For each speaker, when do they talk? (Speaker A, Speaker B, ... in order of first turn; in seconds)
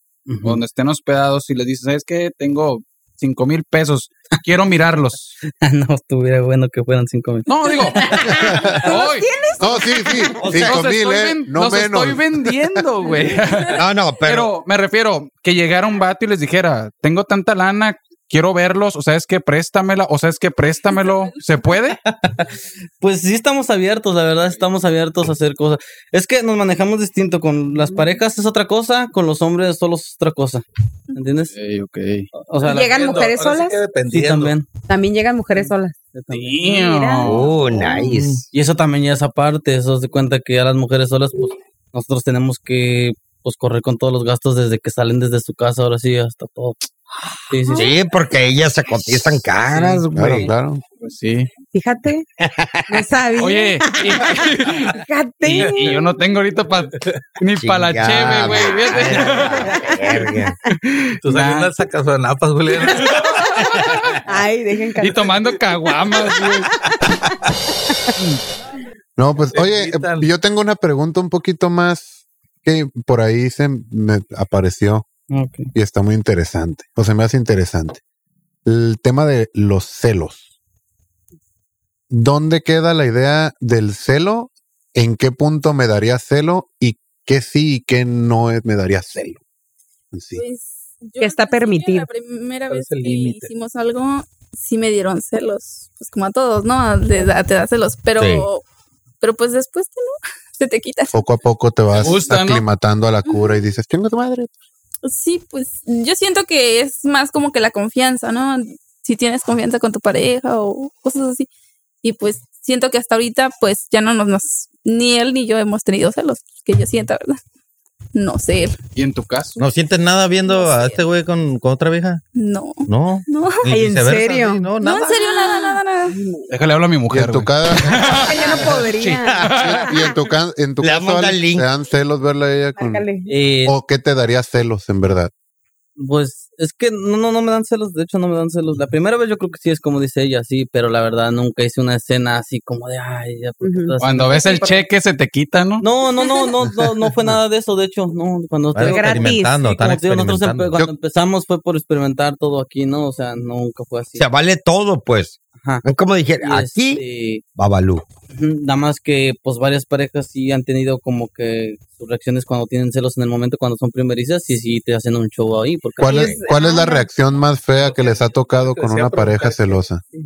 Speaker A: 0.3-0.6, 5.5-7.5, 23.0-31.5, 32.3-33.0, 34.1-34.7, 35.6-36.6, 38.5-46.9, 47.5-47.9, 49.7-50.5, 75.3-75.7, 133.3-133.8, 136.0-144.8, 145.8-154.3, 156.4-157.4, 158.3-166.4
Speaker B: 0.4-5.4, 7.5-9.3, 10.6-22.0, 31.5-32.3, 36.3-37.5, 51.0-51.5, 53.4-59.8, 60.7-61.7, 65.0-66.7, 102.0-102.6, 119.0-119.6, 126.5-129.9, 144.0-145.8
Speaker C: 8.1-10.4, 32.6-33.8, 34.9-36.0, 36.6-38.1, 51.7-52.2, 52.9-56.1, 59.7-60.4, 64.3-65.3, 66.3-67.3, 91.2-92.1, 123.7-126.5, 128.1-129.6, 132.8-133.3, 143.6-143.9, 148.8-149.6, 166.0-167.1
Speaker D: 8.3-8.8, 9.6-12.8, 50.1-50.8, 69.2-75.0, 75.7-78.0, 78.7-80.5, 82.1-89.4, 90.1-90.4, 101.1-104.5, 127.1-128.2, 129.6-133.0, 133.7-135.3, 166.0-170.0
Speaker E: 10.4-10.8, 13.8-14.5, 37.2-38.4, 47.8-50.5, 52.4-53.0, 57.6-60.6, 130.8-131.7, 154.2-157.0, 157.6-158.1
Speaker F: 21.0-21.3, 90.3-98.6, 99.2-101.2, 103.3-103.6, 105.0-111.5, 112.0-117.4, 118.2-118.8, 120.4-121.1, 122.3-123.7, 124.8-126.2
Speaker G: 32.8-34.5, 38.0-38.4, 61.2-63.3, 69.5-70.3, 92.7-93.5, 167.8-169.8
Speaker H: 119.6-122.2, 122.9-125.2, 148.7-150.8